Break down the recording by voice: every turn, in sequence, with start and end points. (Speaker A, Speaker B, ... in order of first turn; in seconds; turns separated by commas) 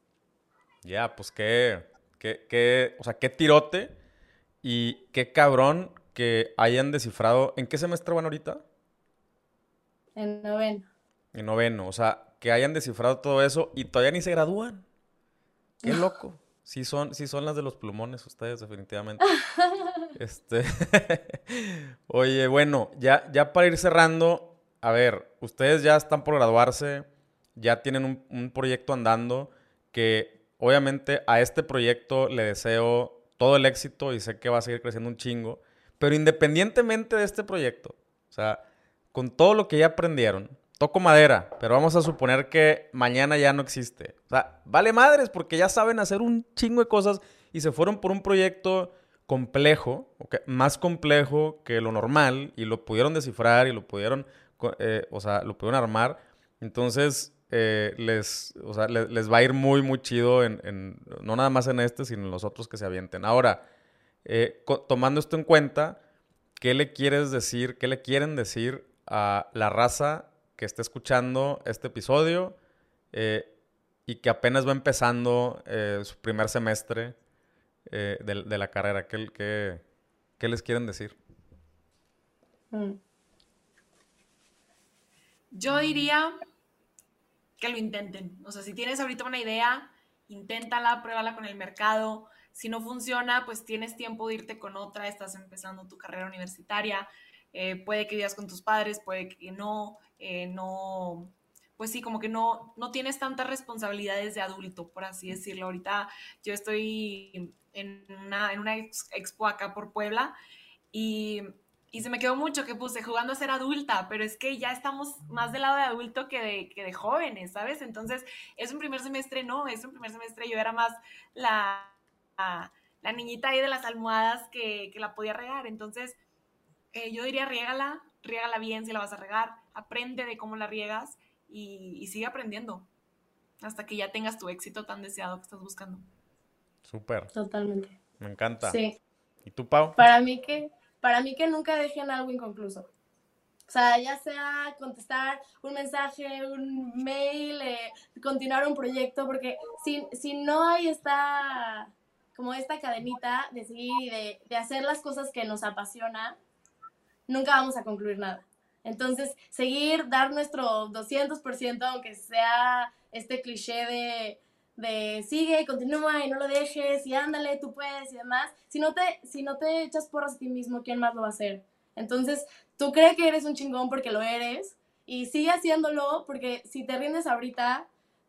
Speaker A: 0.8-3.9, Speaker A: 4.6-8.6, Speaker B: 10.2-10.9, Speaker A: 11.3-14.8, Speaker A: 15.8-19.3, Speaker B: 19.3-20.1, Speaker A: 20.1-38.6, Speaker A: 39.1-63.6, Speaker A: 64.2-66.0, Speaker A: 66.6-72.6, Speaker A: 73.1-73.5, Speaker A: 74.1-77.2, Speaker A: 77.9-79.8, Speaker A: 80.4-81.2, Speaker B: 82.7-83.0, Speaker C: 85.5-86.3, Speaker C: 87.6-110.4, Speaker C: 110.9-126.2, Speaker C: 126.9-132.9, Speaker C: 133.6-136.0, Speaker A: 136.8-137.3, Speaker B: 137.3-138.0, Speaker A: 138.2-138.8, Speaker B: 138.6-139.0, Speaker A: 139.4-140.0, Speaker B: 140.0-142.9, Speaker B: 143.7-156.4, Speaker B: 157.3-177.9